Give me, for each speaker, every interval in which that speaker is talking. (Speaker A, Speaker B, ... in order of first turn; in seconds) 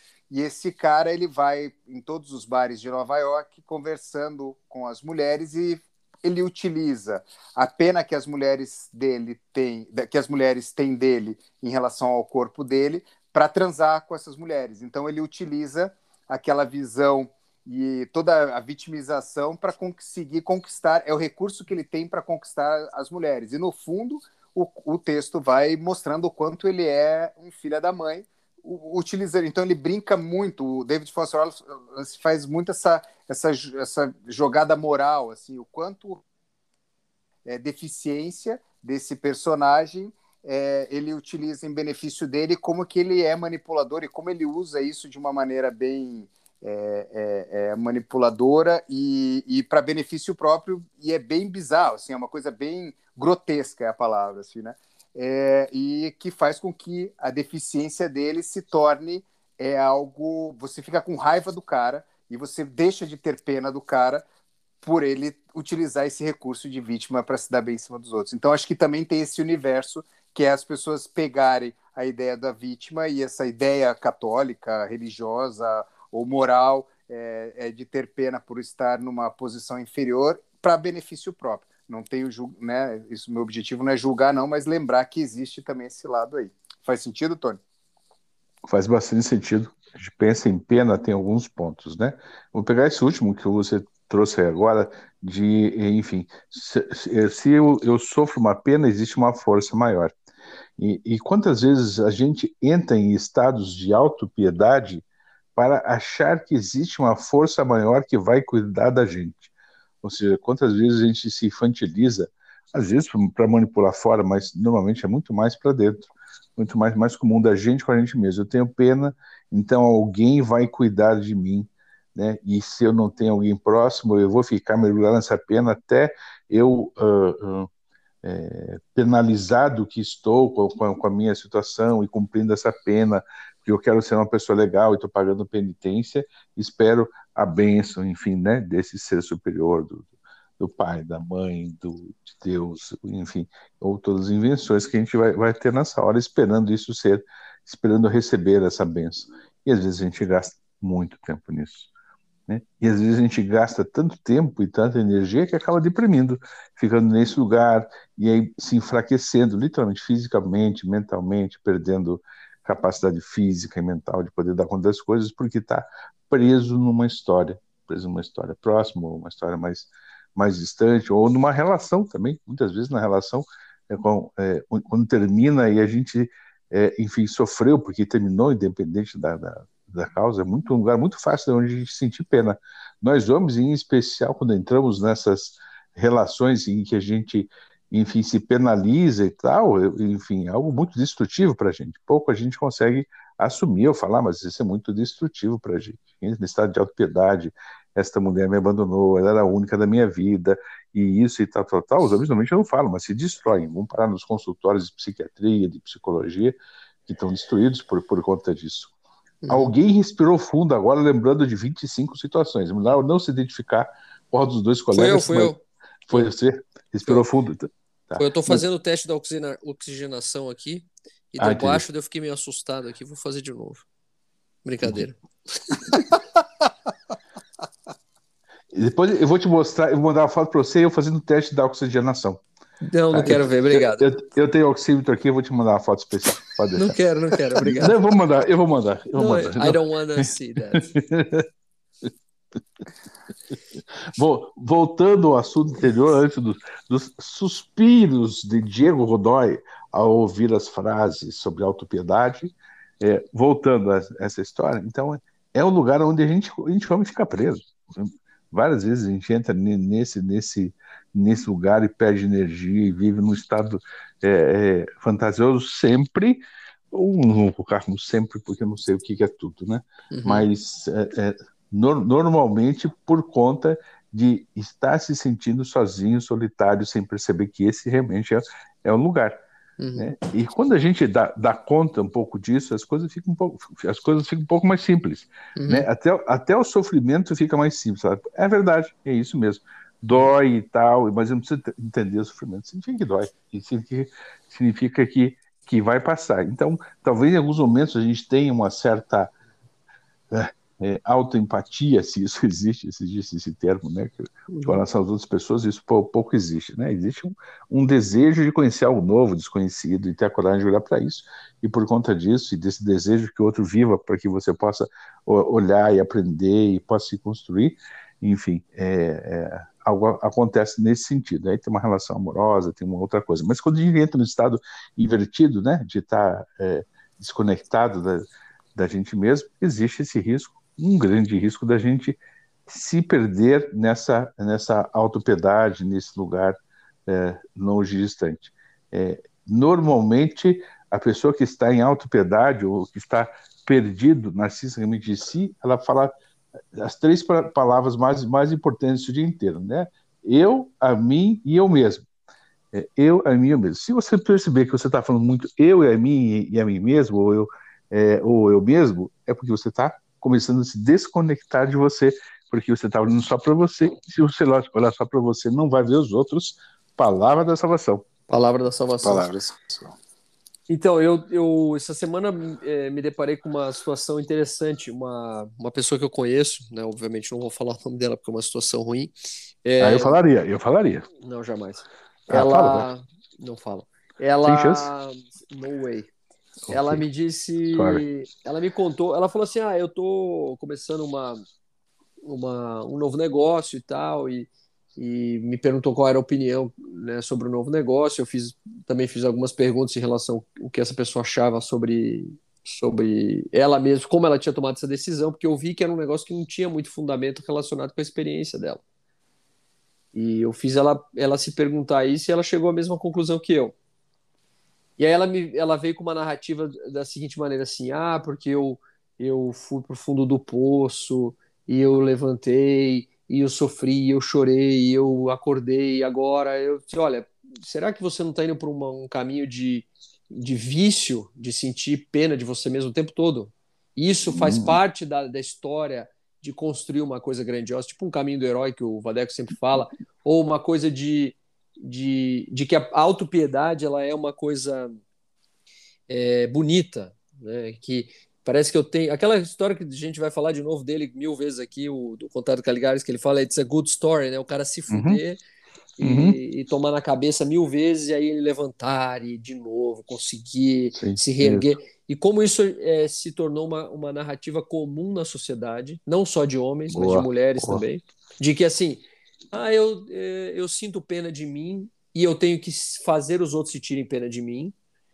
Speaker A: 0.3-36.2, 37.5-64.3, 64.8-87.6, 369.0-369.9
Speaker B: 88.7-100.2, 100.8-105.0, 105.6-109.5, 110.0-127.7, 128.2-151.9, 152.5-206.6, 207.1-208.9, 209.5-215.5, 216.1-218.6, 221.4-221.8, 228.7-232.4, 233.1-237.0, 237.6-241.5, 244.1-279.4, 280.0-299.3, 300.3-328.2, 328.8-346.1, 346.8-352.1, 352.7-368.1, 379.8-381.1, 382.3-382.9, 384.5-384.9, 386.7-387.0, 387.7-388.0, 434.3-434.8, 454.9-455.2, 456.0-456.4, 460.9-461.7, 466.9-467.9
Speaker C: 209.4-209.7, 214.9-216.3, 218.2-223.9, 224.6-226.2, 232.8-234.2, 236.8-238.0, 239.1-240.9, 270.1-270.5, 279.8-280.1, 285.6-285.9, 304.5-304.8, 368.3-369.2, 370.7-379.1, 379.6-380.2, 381.2-386.1, 386.7-391.4, 392.2-408.8, 410.1-413.8, 415.0-445.0, 446.1-455.4, 456.0-474.8